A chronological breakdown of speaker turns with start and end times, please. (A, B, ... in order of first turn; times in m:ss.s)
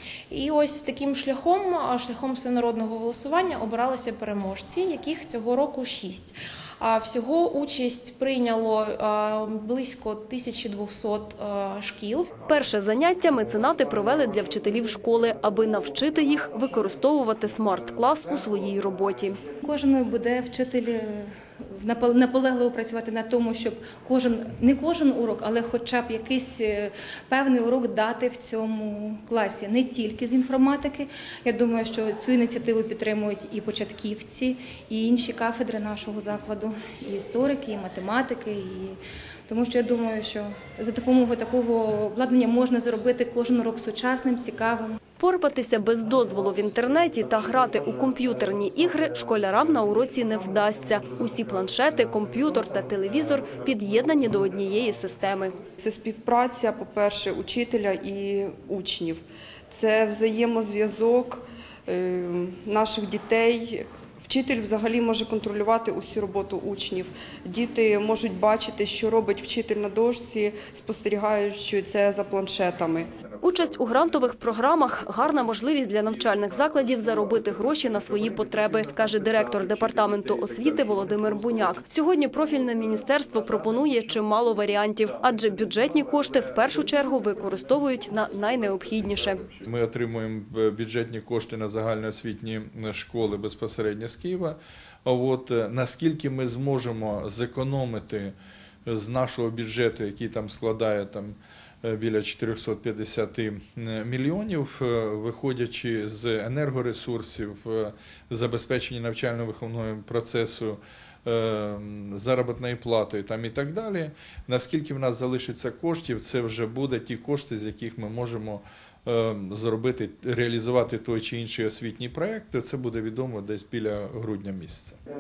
0:00.3-0:12.4 A
0:12.5-0:19.4 B
0:19.6-0:45.0 C
0:45.2-0:55.6 B
0:55.8-1:13.1 D
1:13.3-1:15.5 E
1:13.4-1:29.4 B
1:16.1-1:21.6 E
1:29.5-1:38.3 E
1:38.9-2:05.0 E